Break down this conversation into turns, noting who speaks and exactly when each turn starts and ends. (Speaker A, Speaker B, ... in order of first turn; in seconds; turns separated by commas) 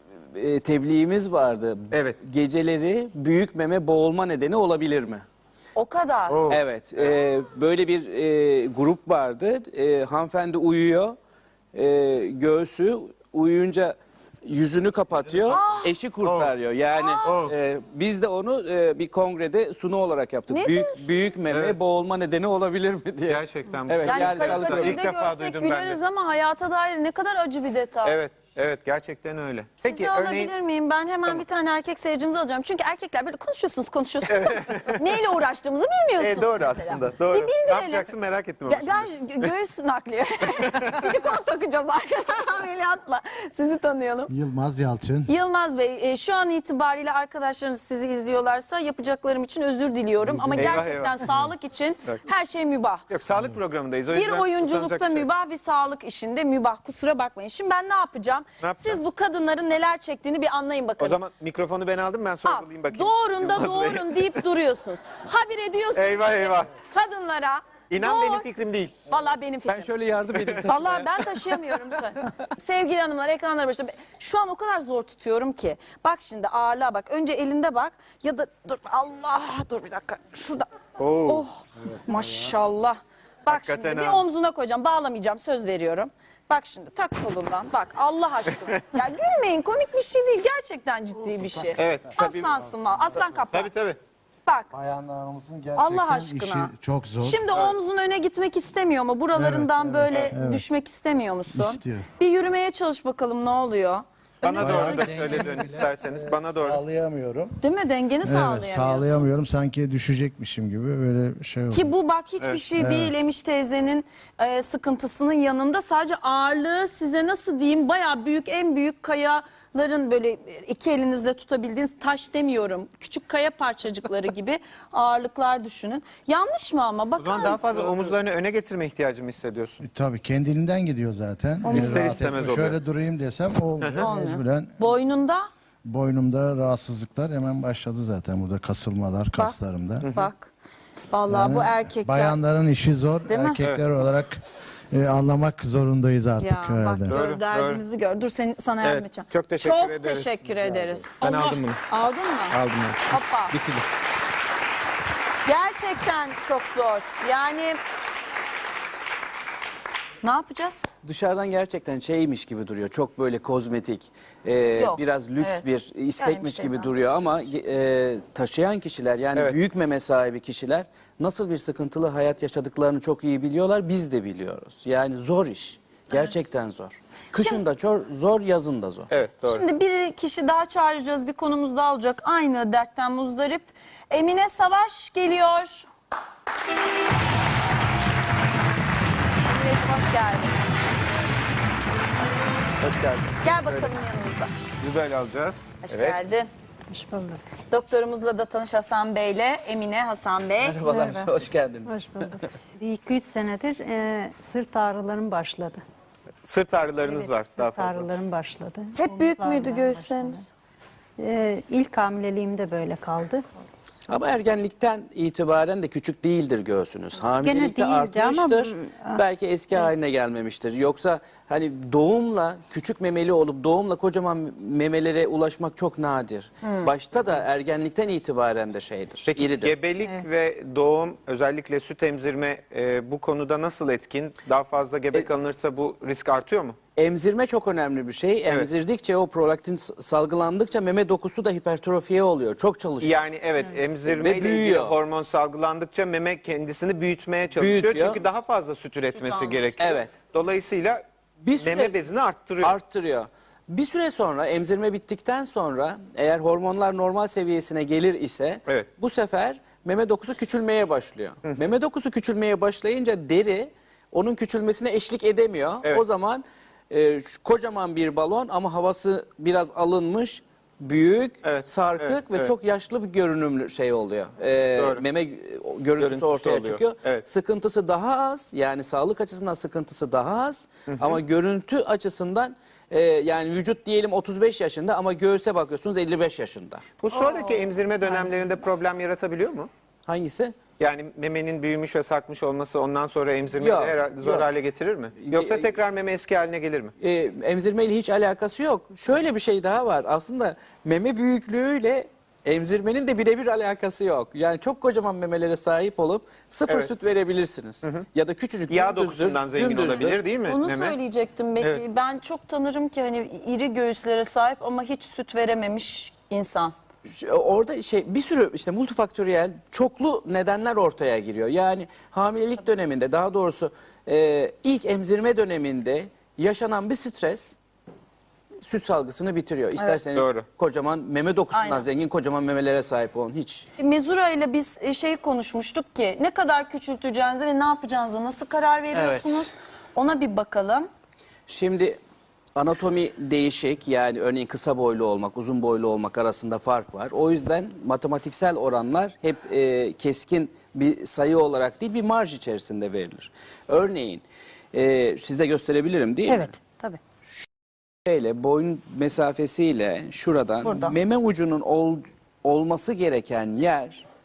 Speaker A: 0.3-5.2, Speaker B: 1.9-2.2, Speaker C: 5.8-6.5, Speaker B: 6.3-7.0, Speaker A: 6.5-11.2, Speaker A: 11.7-25.1, Speaker B: 15.3-15.6, Speaker C: 15.5-15.9, Speaker B: 16.2-16.5, Speaker C: 17.0-17.3, Speaker B: 17.2-17.6, Speaker C: 20.5-21.2, Speaker B: 21.5-21.8, Speaker B: 23.3-26.0, Speaker C: 24.0-28.2, Speaker B: 28.0-30.5, Speaker C: 29.8-38.1, Speaker B: 34.3-35.0, Speaker B: 36.2-39.5, Speaker C: 38.7-44.3, Speaker D: 44.3-45.3, Speaker C: 45.3-53.0, Speaker D: 50.2-50.9, Speaker B: 50.6-51.3, Speaker B: 53.1-55.3, Speaker C: 54.1-61.2, Speaker B: 58.6-59.0, Speaker B: 61.0-64.4, Speaker C: 62.4-68.5, Speaker B: 65.9-66.7, Speaker B: 67.9-69.0, Speaker C: 69.1-69.9, Speaker A: 69.7-71.3, Speaker C: 70.6-80.7, Speaker B: 81.0-81.5, Speaker C: 81.2-93.7, Speaker B: 83.5-84.3, Speaker B: 91.8-92.2, Speaker D: 92.2-92.6, Speaker B: 93.5-94.0, Speaker C: 94.5-94.7, Speaker D: 94.7-97.4, Speaker C: 95.8-105.5, Speaker D: 99.3-100.6, Speaker D: 101.5-102.1, Speaker B: 104.4-106.8, Speaker D: 104.6-107.6, Speaker C: 107.6-109.3, Speaker D: 108.2-111.9, Speaker C: 111.7-128.1, Speaker D: 112.8-113.1, Speaker B: 127.2-129.8, Speaker D: 129.8-134.8, Speaker C: 131.6-132.2, Speaker B: 131.7-132.8, Speaker B: 133.8-134.1, Speaker C: 134.0-135.5, Speaker D: 135.8-140.1, Speaker C: 139.3-140.5, Speaker B: 140.0-140.3, Speaker C: 141.1-142.4, Speaker D: 141.3-147.2, Speaker C: 143.3-143.6, Speaker B: 143.6-143.9, Speaker C: 146.4-152.6, Speaker B: 147.1-147.8, Speaker B: 148.8-151.8, Speaker B: 152.5-153.8, Speaker C: 153.1-153.6, Speaker C: 155.4-157.8, Speaker C: 160.2-160.9, Speaker A: 161.0-179.1, Speaker C: 164.8-165.7, Speaker C: 166.2-166.9, Speaker B: 179.1-179.6, Speaker C: 179.4-185.9, Speaker C: 189.5-190.6, Speaker B: 192.8-193.9, Speaker C: 193.4-194.5, Speaker B: 194.8-196.2, Speaker C: 195.8-196.5, Speaker E: 196.9-197.4, Speaker C: 197.7-200.9, Speaker A: 200.6-202.4, Speaker E: 200.8-201.3, Speaker E: 201.8-205.8, Speaker B: 206.4-208.1, Speaker E: 207.0-210.5, Speaker C: 209.0-210.5, Speaker E: 211.2-213.4, Speaker A: 214.1-229.7, Speaker E: 217.4-219.2, Speaker C: 226.6-226.9, Speaker B: 229.3-236.8, Speaker A: 237.0-243.2, Speaker B: 243.0-251.0, Speaker A: 244.1-244.9, Speaker A: 247.6-248.2, Speaker C: 249.2-249.8, Speaker A: 249.8-250.2, Speaker A: 251.4-252.0, Speaker B: 251.6-252.8, Speaker A: 252.6-286.9, Speaker B: 271.4-272.5, Speaker B: 274.8-275.0, Speaker B: 276.0-277.2, Speaker B: 280.9-281.2, Speaker B: 287.0-289.7, Speaker C: 287.2-287.5, Speaker A: 290.1-290.6, Speaker B: 290.8-296.9, Speaker A: 293.6-294.5, Speaker A: 295.2-295.8, Speaker A: 297.0-310.2, Speaker B: 308.7-311.0, Speaker C: 309.8-316.7, Speaker A: 317.1-327.6, Speaker A: 328.6-333.7, Speaker B: 330.1-330.4, Speaker C: 331.5-331.9, Speaker C: 333.8-340.9, Speaker A: 338.9-339.5, Speaker A: 341.5-342.0, Speaker A: 342.6-356.5, Speaker C: 356.3-357.0, Speaker A: 358.1-364.1, Speaker C: 360.6-360.9